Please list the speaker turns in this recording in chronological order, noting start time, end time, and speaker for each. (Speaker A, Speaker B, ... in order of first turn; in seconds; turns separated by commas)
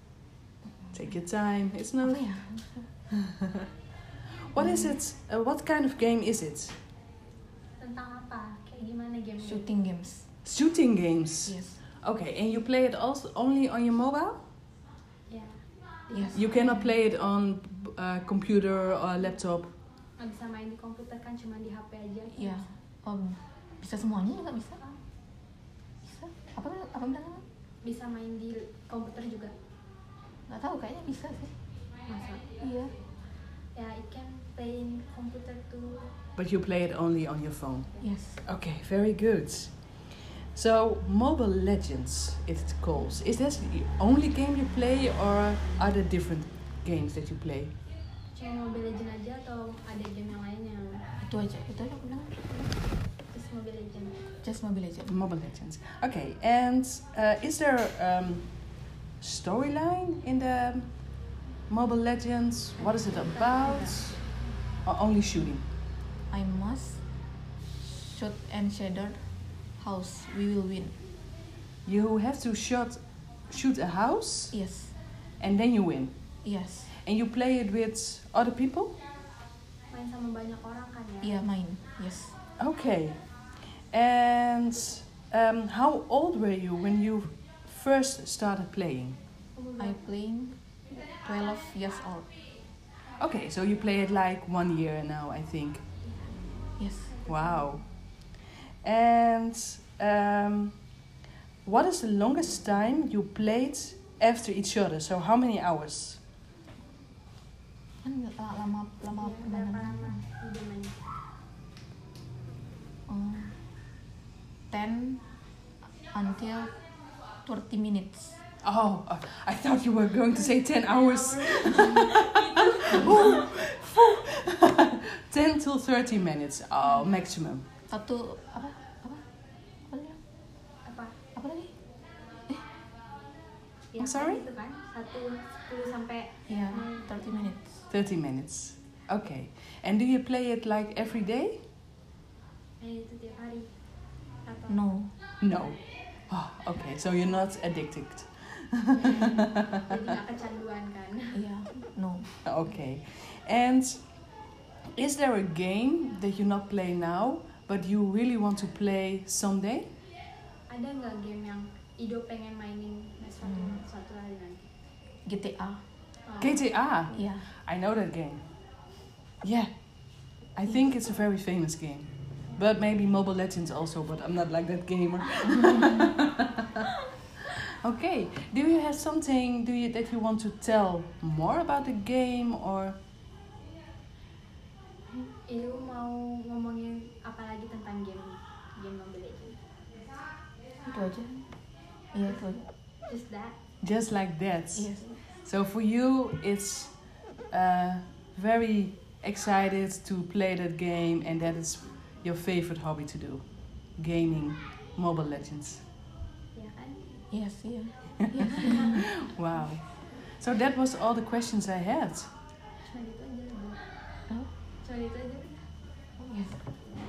Speaker A: 0.9-2.2, Speaker B: 2.0-2.9, Speaker A: 3.2-3.6, Speaker A: 4.5-6.8, Speaker B: 4.6-4.9, Speaker C: 7.8-9.7, Speaker B: 9.4-10.3, Speaker A: 10.4-14.4, Speaker B: 11.4-11.8, Speaker C: 15.3-15.6, Speaker B: 16.1-16.5, Speaker A: 16.3-19.7, Speaker C: 20.2-22.6, Speaker B: 22.3-24.8, Speaker B: 26.0-27.4, Speaker C: 27.8-29.5, Speaker B: 30.5-31.6, Speaker C: 32.1-32.5, Speaker B: 32.6-32.9, Speaker C: 33.7-36.1, Speaker A: 36.4-39.7, Speaker B: 38.0-38.4, Speaker A: 40.5-47.7, Speaker C: 48.3-51.0, Speaker B: 51.2-52.7, Speaker C: 53.3-54.2, Speaker B: 54.4-55.1, Speaker A: 55.1-58.5, Speaker A: 59.2-60.9, Speaker A: 61.7-64.2, Speaker C: 62.8-64.2, Speaker A: 64.8-65.6, Speaker B: 66.3-67.0, Speaker B: 67.8-69.2, Speaker B: 69.8-71.0, Speaker A: 71.8-74.5, Speaker B: 74.5-75.0, Speaker A: 75.4-76.1, Speaker B: 76.4-76.9, Speaker A: 77.0-79.0, Speaker C: 79.9-81.3, Speaker B: 81.2-82.4, Speaker A: 82.6-83.2, Speaker A: 83.9-89.2, Speaker C: 89.5-90.0, Speaker B: 89.8-92.3, Speaker A: 93.2-95.8, Speaker C: 96.0-97.8, Speaker B: 96.8-97.1, Speaker A: 97.2-97.8, Speaker A: 98.8-100.8, Speaker A: 101.6-106.2, Speaker B: 108.0-110.2, Speaker C: 109.1-111.0, Speaker B: 113.1-113.5, Speaker B: 114.7-115.2, Speaker B: 116.0-116.7, Speaker B: 117.4-118.4, Speaker A: 118.6-127.6, Speaker C: 121.4-123.4, Speaker B: 127.9-129.2, Speaker B: 129.8-130.2, Speaker C: 130.8-131.2, Speaker B: 131.3-131.7, Speaker C: 133.9-137.5, Speaker A: 134.0-134.4, Speaker B: 136.5-137.8, Speaker A: 137.9-141.6, Speaker C: 142.8-143.7, Speaker C: 144.4-144.9, Speaker B: 144.7-145.1, Speaker A: 145.4-145.8, Speaker A: 146.3-149.8, Speaker C: 148.9-151.4, Speaker B: 151.3-152.4, Speaker A: 152.4-154.0, Speaker A: 154.9-159.9, Speaker C: 160.7-164.7, Speaker B: 163.4-163.8, Speaker B: 165.2-165.8, Speaker C: 166.2-166.6, Speaker A: 166.4-168.4, Speaker B: 167.1-167.4, Speaker A: 169.4-169.7, Speaker A: 170.5-176.8, Speaker A: 177.8-183.0, Speaker C: 185.5-189.6, Speaker B: 190.8-191.5, Speaker B: 192.1-192.7, Speaker C: 193.1-193.6, Speaker A: 193.8-196.9, Speaker B: 194.7-195.1, Speaker A: 197.5-203.4, Speaker A: 204.0-205.8, Speaker C: 206.5-207.1, Speaker B: 207.3-209.0, Speaker A: 208.8-209.8, Speaker A: 210.4-212.3, Speaker C: 212.8-213.8, Speaker C: 214.8-215.5, Speaker B: 216.2-216.6